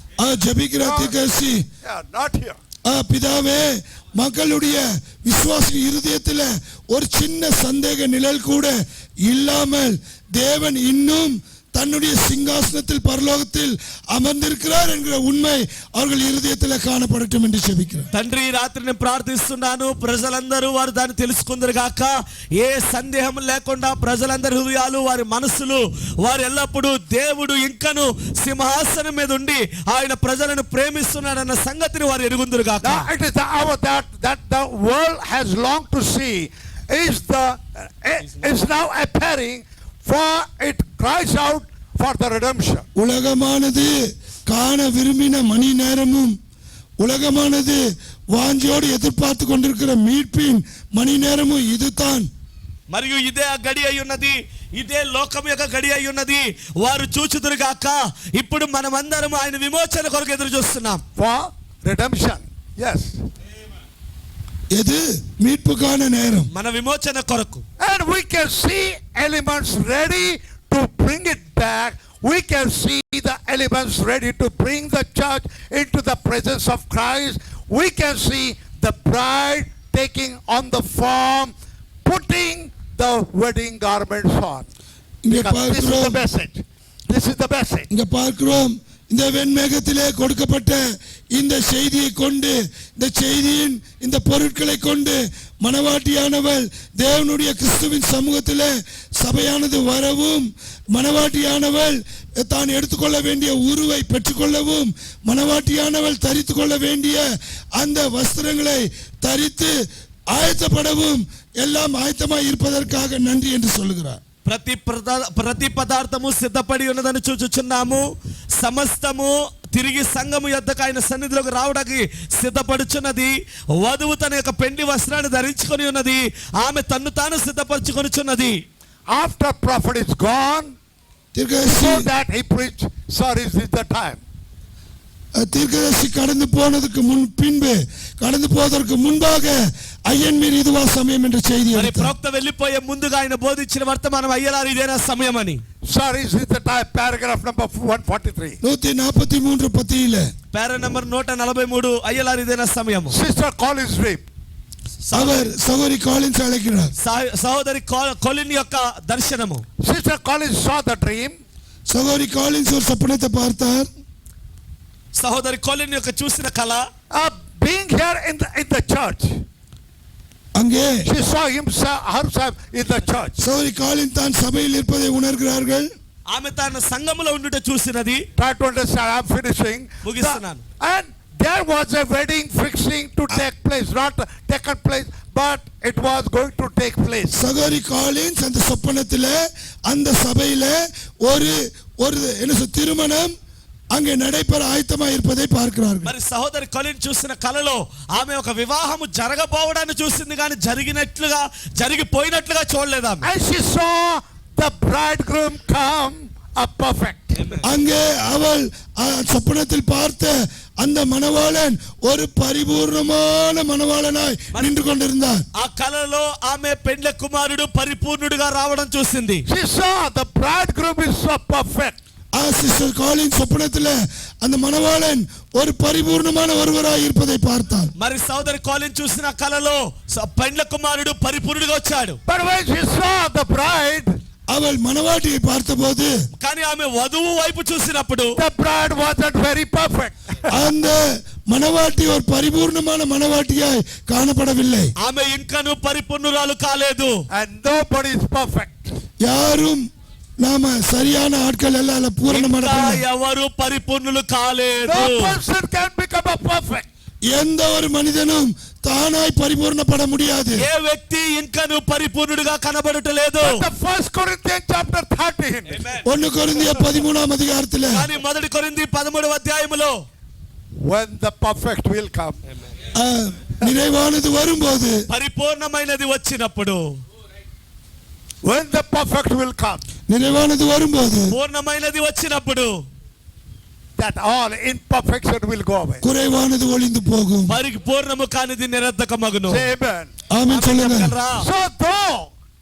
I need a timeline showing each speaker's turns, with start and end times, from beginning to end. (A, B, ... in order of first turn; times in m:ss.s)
0:00.2-0:01.6 A
0:00.8-0:01.1 B
0:01.8-0:02.6 B
0:02.8-0:18.1 A
0:18.1-0:33.1 C
0:32.8-0:42.8 B
0:42.9-0:44.0 A
0:44.5-0:46.3 A
0:47.0-0:52.3 A
0:52.9-1:01.0 C
1:01.2-1:03.2 B
1:04.7-1:06.5 A
1:06.5-1:07.6 C
1:07.8-1:21.5 B
1:22.0-1:24.7 B
1:25.2-1:26.2 A
1:25.3-1:27.9 B
1:27.9-1:49.7 A
1:50.3-1:54.2 A
1:54.4-1:58.0 C
1:58.6-2:08.6 C
2:09.1-2:10.7 B
2:11.3-2:12.1 A
2:11.6-2:14.2 B
2:15.4-2:22.1 A
2:21.7-2:25.6 C
2:25.8-2:28.6 B
2:28.6-2:30.3 A
2:30.5-2:33.2 C
2:33.1-2:34.2 B
2:35.0-2:35.5 C
2:35.1-2:36.9 A
2:37.0-2:39.6 C
2:39.8-2:41.4 B
2:41.9-2:43.9 A
2:45.1-2:46.9 C
2:47.1-2:49.4 B
2:50.5-2:51.1 A
2:51.0-2:53.5 B
2:53.4-2:55.9 A
2:56.3-2:58.2 C
2:58.4-3:07.3 B
3:00.0-3:00.6 C
3:07.3-3:13.3 A
3:13.9-3:16.1 A
3:16.0-3:23.3 C
3:23.2-3:27.5 B
3:27.4-3:27.6 C
3:27.6-3:35.4 A
3:34.5-3:34.8 C
3:35.5-3:39.4 C
3:39.5-3:42.0 B
3:42.3-3:47.9 A
3:48.0-3:52.2 C
3:52.3-3:54.1 B
3:54.5-3:56.1 A
3:56.3-3:58.4 C
3:58.4-4:00.5 B
4:00.5-4:04.9 A
4:05.0-4:07.1 C
4:07.3-4:08.9 B
4:09.2-4:09.8 A
4:10.4-4:13.0 A
4:12.3-4:15.4 C
4:14.8-4:16.8 B
4:17.3-4:20.6 A
4:20.6-4:23.6 C
4:23.4-4:26.0 B
4:25.7-4:26.1 C
4:26.0-4:28.1 A
4:27.9-4:30.0 C
4:30.8-4:32.4 B
4:32.9-4:35.0 A
4:35.1-4:36.9 C
4:38.4-4:39.8 B
4:40.1-4:41.3 A
4:41.3-4:42.8 C
4:44.0-4:46.0 B
4:46.0-4:47.6 A
4:47.5-4:49.7 C
4:49.5-4:50.1 B
4:50.3-4:51.1 A
4:50.5-4:51.5 C
4:51.4-4:52.3 B